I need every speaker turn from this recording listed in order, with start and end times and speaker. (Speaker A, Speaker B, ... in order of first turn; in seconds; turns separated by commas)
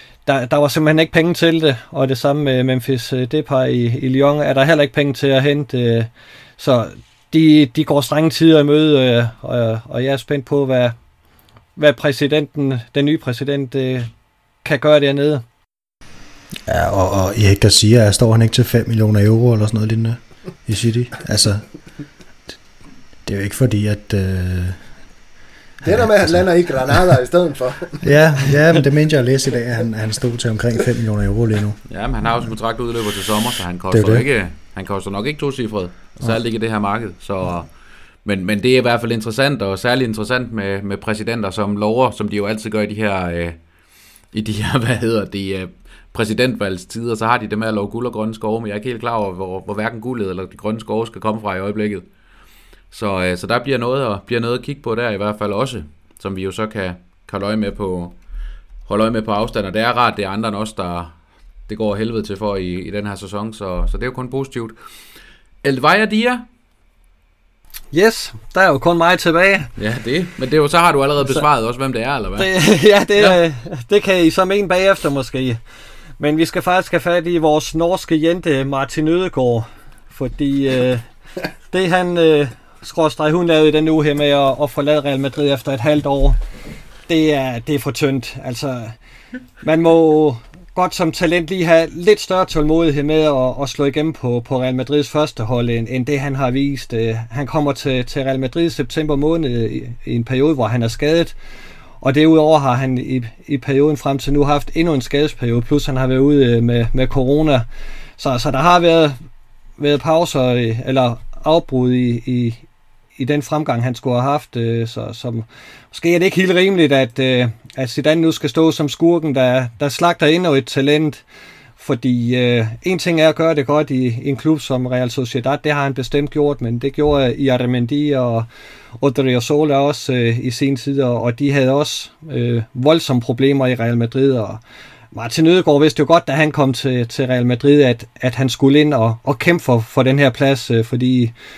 Speaker A: 0.2-10.9, Speaker A: 11.8-14.1, Speaker A: 14.6-15.4, Speaker B: 16.7-21.7, Speaker B: 23.2-24.8, Speaker C: 25.8-28.0, Speaker B: 25.8-27.1, Speaker B: 28.0-31.8, Speaker D: 31.9-37.7, Speaker B: 33.9-34.2, Speaker D: 38.2-43.6, Speaker D: 44.3-52.1, Speaker D: 52.9-58.1, Speaker D: 58.9-61.1, Speaker D: 61.7-64.8, Speaker D: 65.6-66.4, Speaker A: 67.9-69.7, Speaker D: 69.8-72.5, Speaker A: 72.4-75.6, Speaker A: 76.2-81.0, Speaker A: 81.7-86.4, Speaker A: 87.1-89.0, Speaker A: 89.6-101.3, Speaker A: 102.0-107.7, Speaker A: 108.2-109.2, Speaker A: 109.8-112.6, Speaker A: 113.2-121.2, Speaker A: 121.8-128.5, Speaker A: 129.0-134.6, Speaker A: 135.1-141.3